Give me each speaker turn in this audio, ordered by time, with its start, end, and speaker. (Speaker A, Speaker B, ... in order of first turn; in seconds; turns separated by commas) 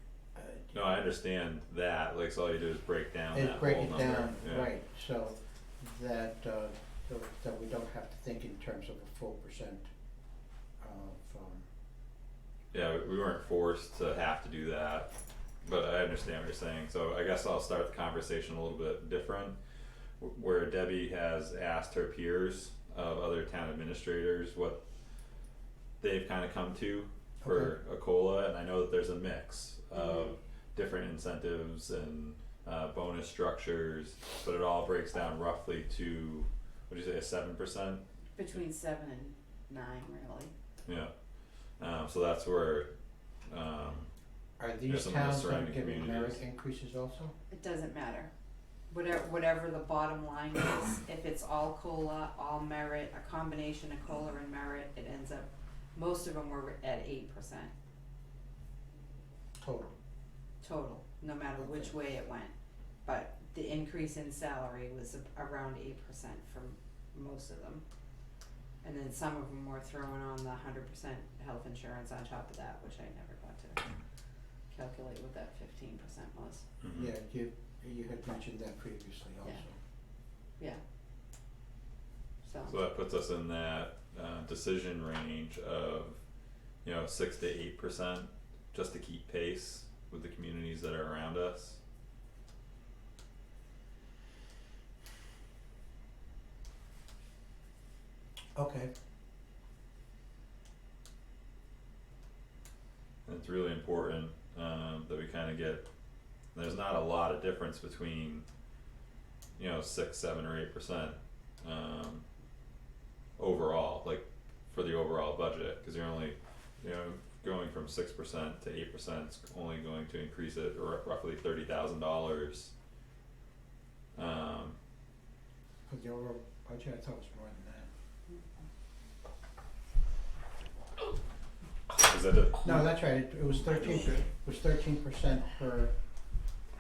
Speaker A: 0.3-0.7, Speaker B: 0.7-4.7, Speaker A: 3.3-9.9, Speaker A: 10.8-11.7, Speaker B: 12.7-15.1, Speaker B: 15.6-19.6, Speaker B: 20.2-24.8, Speaker B: 26.0-38.0, Speaker A: 27.4-27.8, Speaker C: 29.9-30.4, Speaker C: 38.4-40.5, Speaker B: 40.9-41.1, Speaker B: 41.8-42.9, Speaker B: 43.5-44.1, Speaker A: 44.6-47.3, Speaker B: 44.8-46.4, Speaker C: 47.5-48.3, Speaker C: 48.9-57.7, Speaker A: 59.6-60.0, Speaker C: 60.6-67.8, Speaker A: 61.6-61.9, Speaker C: 68.8-73.8, Speaker C: 74.7-76.6, Speaker B: 76.8-77.1, Speaker A: 76.9-79.8, Speaker C: 82.4-82.8, Speaker B: 82.7-86.2, Speaker B: 86.8-91.8, Speaker A: 98.6-98.9, Speaker B: 103.3-105.9, Speaker B: 106.5-108.5, Speaker B: 109.6-112.2, Speaker B: 113.4-122.7, Speaker B: 124.2-124.8, Speaker A: 125.9-127.9, Speaker B: 132.0-133.0, Speaker A: 132.6-135.9